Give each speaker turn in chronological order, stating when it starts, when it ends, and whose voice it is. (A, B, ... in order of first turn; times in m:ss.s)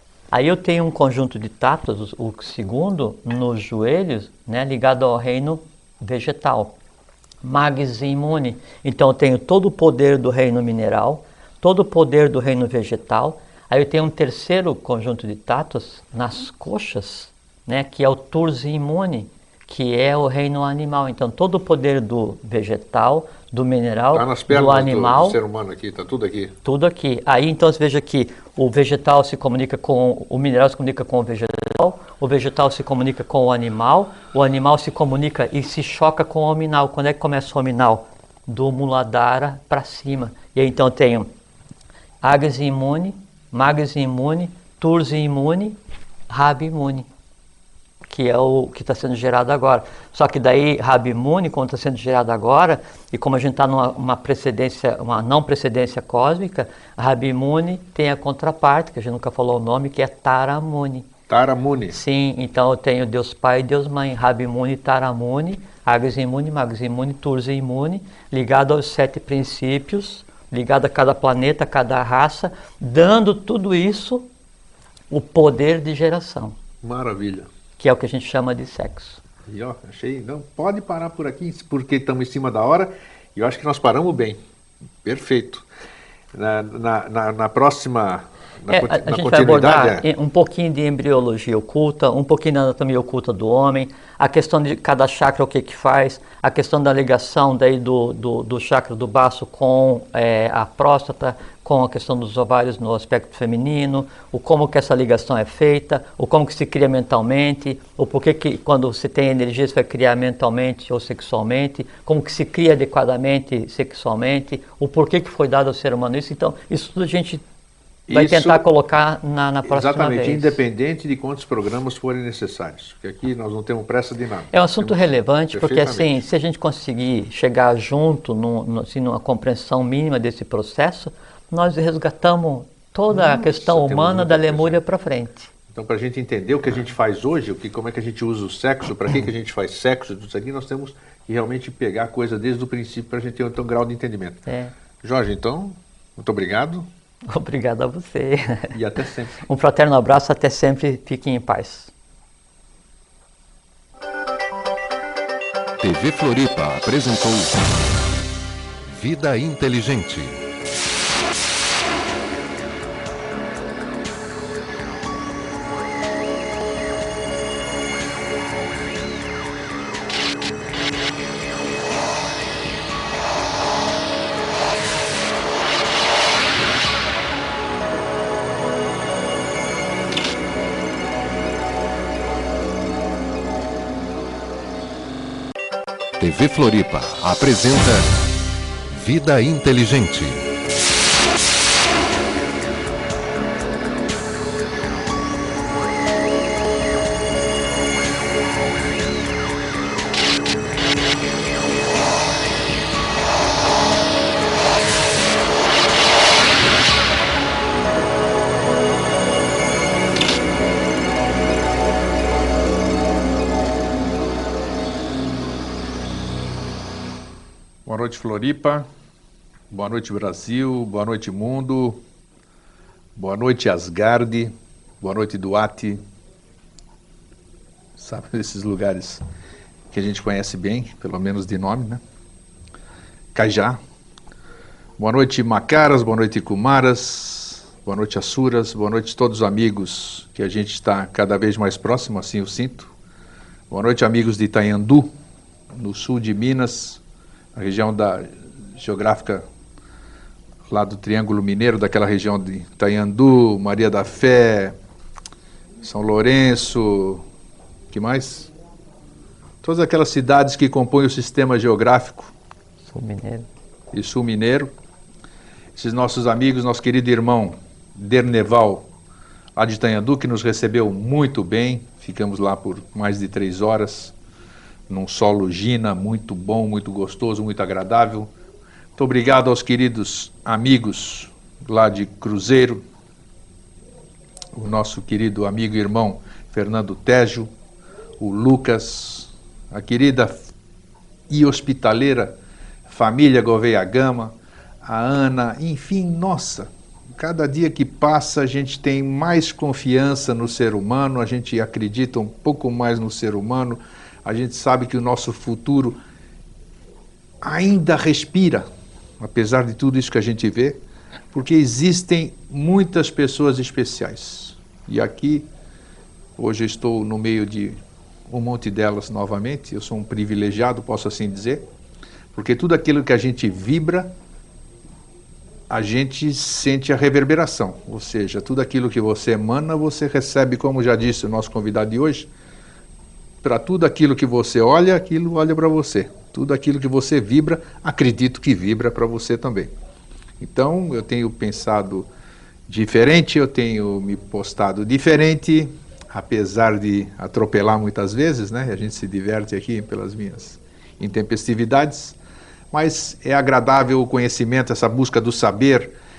0:00.3-0:06.8 A
0:07.4-0:25.4 A
0:24.1-0:26.6 B
0:26.6-0:41.3 A
0:42.2-0:45.8 A
0:46.3-0:47.1 A
0:48.1-1:01.1 A
1:01.3-1:02.0 B
1:01.9-1:14.3 A
1:15.1-1:16.6 A
1:16.8-1:17.5 B
1:17.8-1:19.2 A
1:19.5-1:24.4 B
1:25.0-1:25.6 B
1:26.3-1:30.1 B
1:28.7-1:57.4 A
1:58.1-1:58.6 B
1:58.1-2:00.6 A
1:59.7-2:06.2 B
2:04.5-2:15.5 A
2:13.1-2:14.8 B
2:15.7-2:24.4 B
2:24.5-2:24.7 A
2:25.0-2:26.9 B
2:27.3-2:28.8 A
2:28.7-2:29.5 B
2:29.5-2:31.9 A
2:35.8-2:38.1 C
2:38.8-2:40.4 C
3:06.2-3:08.2 C
3:08.9-3:10.5 C
3:37.9-3:38.9 B
3:39.7-3:42.0 B
3:43.2-3:46.0 B
3:48.0-3:49.2 B
3:49.9-3:52.0 B
3:53.4-3:53.8 B
3:55.0-4:02.9 B
4:03.7-4:05.1 B
4:05.7-4:07.0 B
4:07.6-4:09.4 B
4:10.7-4:14.8 B
4:15.8-4:17.2 B
4:17.9-4:18.5 B
4:19.6-4:22.3 B
4:22.8-4:23.5 A
4:23.9-4:24.7 B
4:25.8-4:28.9 B
4:29.6-4:34.2 B
4:34.9-4:38.3 B
4:39.0-4:42.8 B
4:44.6-4:47.5 B
4:48.2-4:50.4 B
4:51.3-5:06.0 B
5:07.4-5:08.7 B
5:09.2-5:10.8 B
5:11.3-5:15.5 B
5:16.4-5:21.6 B
5:22.3-5:24.2 B
5:25.7-5:32.3 B
5:33.4-5:39.7 B
5:40.4-5:42.1 B
5:42.7-5:52.2 B
5:52.7-5:55.9 B